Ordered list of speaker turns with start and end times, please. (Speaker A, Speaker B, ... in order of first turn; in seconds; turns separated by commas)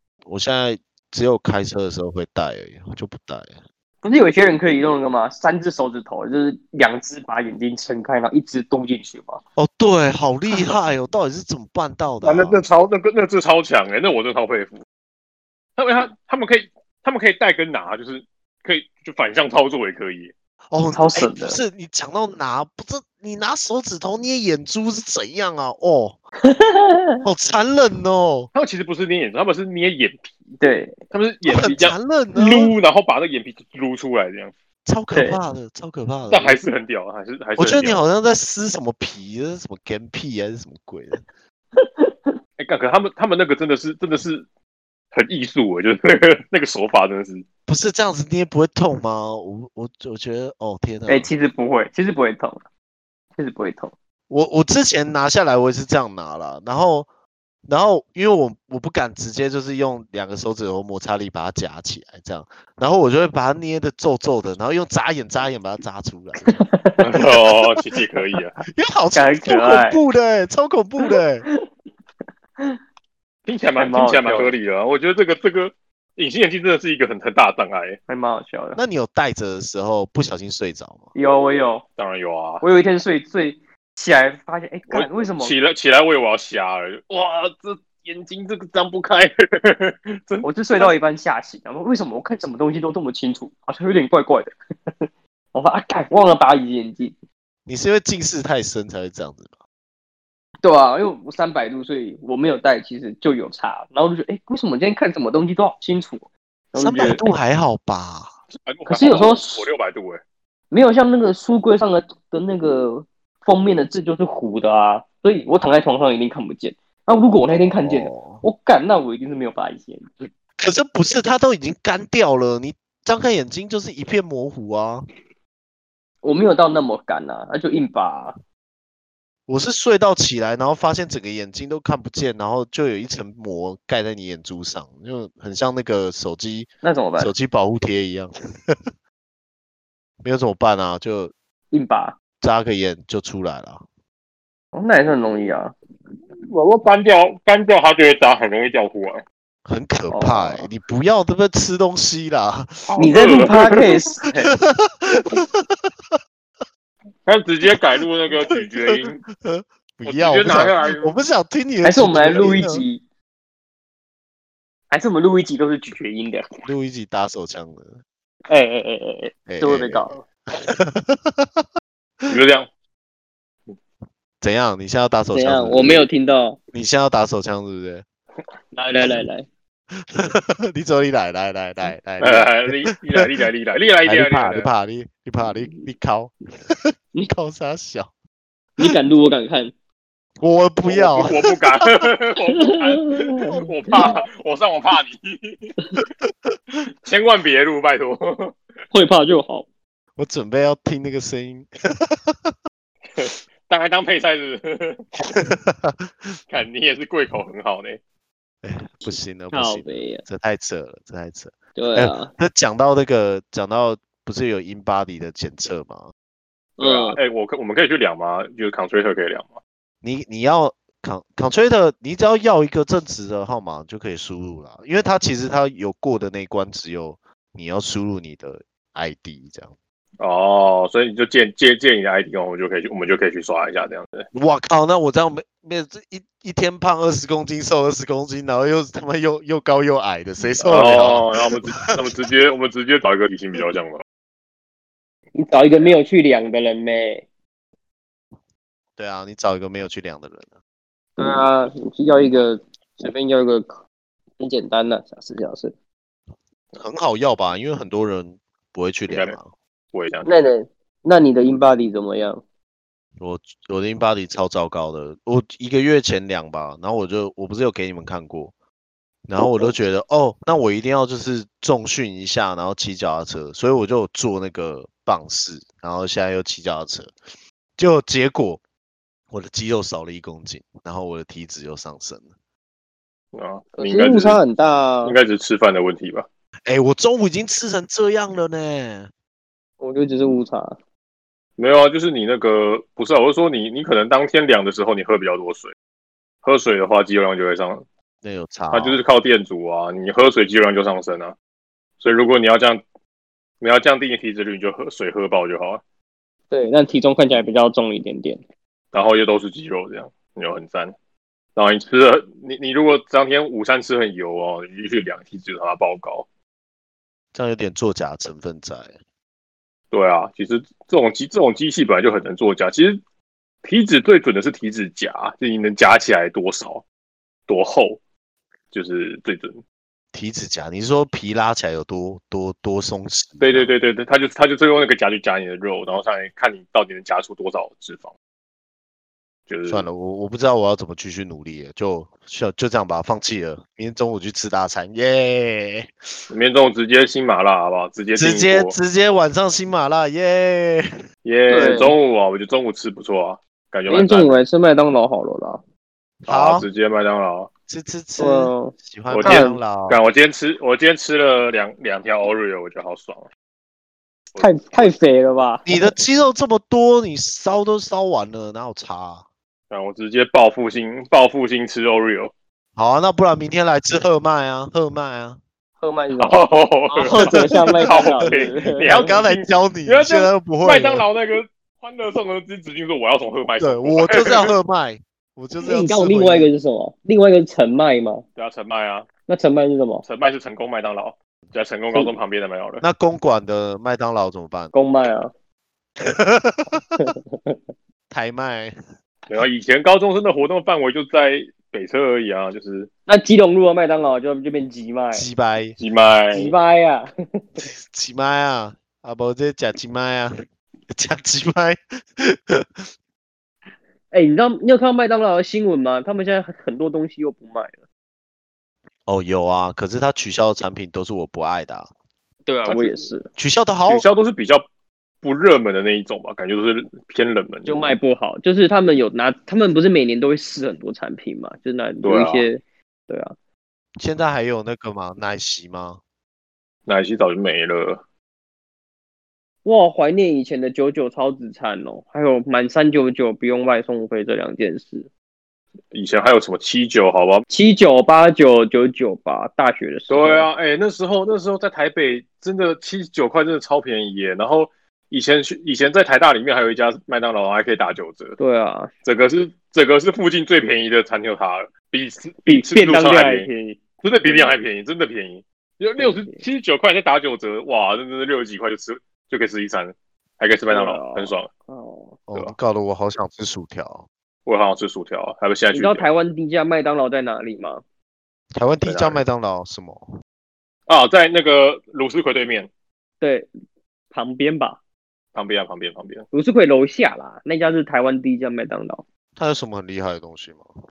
Speaker A: 0.3-3.6, Speaker B: 4.0-9.4, Speaker A: 9.6-12.6, Speaker C: 12.2-14.8, Speaker C: 15.8-20.3, Speaker A: 20.7-26.2, Speaker B: 20.9-21.6, Speaker B: 26.4-27.2, Speaker A: 27.2-28.5, Speaker C: 28.5-30.3, Speaker B: 30.6-31.0, Speaker C: 31.1-34.5, Speaker A: 31.5-32.7, Speaker A: 34.9-36.6, Speaker B: 35.1-35.4, Speaker C: 36.3-38.0, Speaker A: 37.6-41.2, Speaker B: 41.8-42.3, Speaker C: 42.6-44.5, Speaker C: 45.1-47.5, Speaker A: 47.7-51.3, Speaker B: 51.1-52.6, Speaker B: 53.4-53.9, Speaker A: 54.3-57.1, Speaker A: 57.7-66.6, Speaker B: 66.5-67.8, Speaker C: 67.0-68.5, Speaker A: 68.7-71.5, Speaker B: 69.2-70.0, Speaker B: 71.1-71.5, Speaker C: 73.5-78.0, Speaker B: 73.8-74.5, Speaker B: 78.1-78.8, Speaker A: 78.8-81.1, Speaker B: 81.2-81.8, Speaker C: 82.0-82.6, Speaker B: 82.6-85.5, Speaker C: 84.9-90.9, Speaker B: 90.4-94.5, Speaker B: 95.5-97.2, Speaker A: 97.7-99.5, Speaker B: 100.6-107.3, Speaker A: 106.8-108.3, Speaker C: 108.6-110.2, Speaker B: 108.9-109.7, Speaker B: 110.7-120.3, Speaker A: 117.5-118.4, Speaker A: 120.6-125.1, Speaker B: 126.2-128.4, Speaker A: 129.5-138.8, Speaker B: 136.8-137.3, Speaker A: 140.2-141.3, Speaker B: 141.7-142.2, Speaker A: 142.4-143.8, Speaker B: 144.7-145.8, Speaker C: 146.5-149.2, Speaker A: 149.7-153.1, Speaker B: 150.1-150.7, Speaker C: 152.9-153.9, Speaker B: 153.0-154.5, Speaker A: 154.4-156.2, Speaker C: 157.3-159.2, Speaker A: 158.4-162.8, Speaker C: 160.1-161.2, Speaker B: 161.8-163.0, Speaker B: 164.9-166.5, Speaker A: 166.7-168.0, Speaker B: 168.5-170.2, Speaker A: 169.5-171.7, Speaker C: 172.3-172.7, Speaker A: 174.4-176.1, Speaker B: 175.3-176.6, Speaker A: 176.7-178.1, Speaker B: 178.7-179.5, Speaker A: 179.9-183.3, Speaker C: 182.2-184.7, Speaker A: 184.1-188.1, Speaker B: 185.4-185.9, Speaker B: 188.8-189.7, Speaker A: 190.4-192.1, Speaker C: 190.9-195.8, Speaker B: 192.5-194.2, Speaker C: 197.0-198.6, Speaker B: 198.9-199.7, Speaker A: 200.2-202.6, Speaker C: 203.2-205.1, Speaker A: 205.3-206.1, Speaker C: 206.5-208.0, Speaker A: 208.6-216.1, Speaker B: 209.0-210.2, Speaker B: 211.8-212.3, Speaker B: 216.8-217.2, Speaker C: 216.8-219.6, Speaker A: 220.0-229.7, Speaker C: 230.2-234.3, Speaker A: 234.3-242.2, Speaker C: 240.6-244.0, Speaker B: 245.3-247.3, Speaker A: 249.0-250.5, Speaker B: 251.2-253.8, Speaker B: 254.4-255.7, Speaker A: 256.7-259.5, Speaker C: 259.1-259.4, Speaker C: 259.9-260.3, Speaker B: 260.2-262.4, Speaker A: 263.2-268.5, Speaker A: 269.3-277.1, Speaker B: 269.4-269.7, Speaker A: 277.8-278.6, Speaker A: 279.3-282.3, Speaker C: 283.3-284.4, Speaker B: 283.8-285.2, Speaker C: 285.0-286.3, Speaker A: 286.7-289.1, Speaker B: 289.8-290.8, Speaker C: 291.6-295.7, Speaker C: 296.4-297.9, Speaker A: 298.2-299.0, Speaker C: 298.7-301.4, Speaker C: 302.0-302.8, Speaker C: 303.6-305.8, Speaker B: 306.5-308.4, Speaker C: 308.9-310.9, Speaker C: 311.6-316.3, Speaker A: 317.3-318.9, Speaker C: 319.9-323.0, Speaker C: 323.6-326.8, Speaker C: 327.5-328.0, Speaker C: 328.7-329.6, Speaker A: 330.1-333.7, Speaker C: 333.4-338.1, Speaker C: 339.5-339.9, Speaker A: 339.7-345.9, Speaker C: 346.3-348.8, Speaker A: 348.2-350.9, Speaker C: 351.2-354.4, Speaker B: 351.5-352.0, Speaker B: 353.9-355.6, Speaker A: 356.2-356.7, Speaker C: 356.3-357.5, Speaker A: 357.7-360.0, Speaker B: 358.2-359.6, Speaker C: 359.1-363.3, Speaker C: 364.3-364.9, Speaker B: 364.4-365.9, Speaker A: 365.7-369.2, Speaker C: 369.7-372.3, Speaker A: 372.8-375.4, Speaker B: 375.8-379.1, Speaker C: 376.2-384.6, Speaker A: 377.1-381.1, Speaker A: 383.6-386.5, Speaker B: 385.6-388.2, Speaker C: 388.4-389.1, Speaker B: 389.3-390.1, Speaker C: 390.1-392.8, Speaker A: 392.8-394.7, Speaker B: 394.7-395.3, Speaker A: 396.0-397.0, Speaker B: 397.0-397.6, Speaker A: 398.1-398.8, Speaker C: 399.3-402.9, Speaker B: 403.1-405.3, Speaker A: 405.1-405.8, Speaker C: 405.8-406.6, Speaker B: 406.3-407.7, Speaker A: 407.6-410.3, Speaker A: 410.9-412.9, Speaker B: 414.1-417.8, Speaker A: 419.1-421.9, Speaker B: 422.5-423.3, Speaker C: 422.6-423.1, Speaker A: 423.4-424.1, Speaker C: 423.9-424.6, Speaker C: 425.2-427.9, Speaker B: 427.6-433.3, Speaker C: 432.0-432.5, Speaker A: 434.0-436.0, Speaker C: 436.9-438.0, Speaker B: 439.6-445.1, Speaker C: 445.9-447.5, Speaker B: 447.5-450.5, Speaker C: 450.1-458.4, Speaker B: 458.4-458.9, Speaker C: 459.1-463.5, Speaker B: 462.5-464.6, Speaker C: 464.0-471.5, Speaker B: 466.0-466.4, Speaker B: 470.7-472.2, Speaker A: 472.3-474.1, Speaker C: 474.5-476.1, Speaker B: 475.7-477.8, Speaker A: 478.5-480.1, Speaker C: 478.9-479.2, Speaker C: 480.9-482.7, Speaker B: 483.2-483.5, Speaker B: 484.1-484.8, Speaker C: 485.4-486.3, Speaker B: 486.3-489.0, Speaker A: 489.4-490.7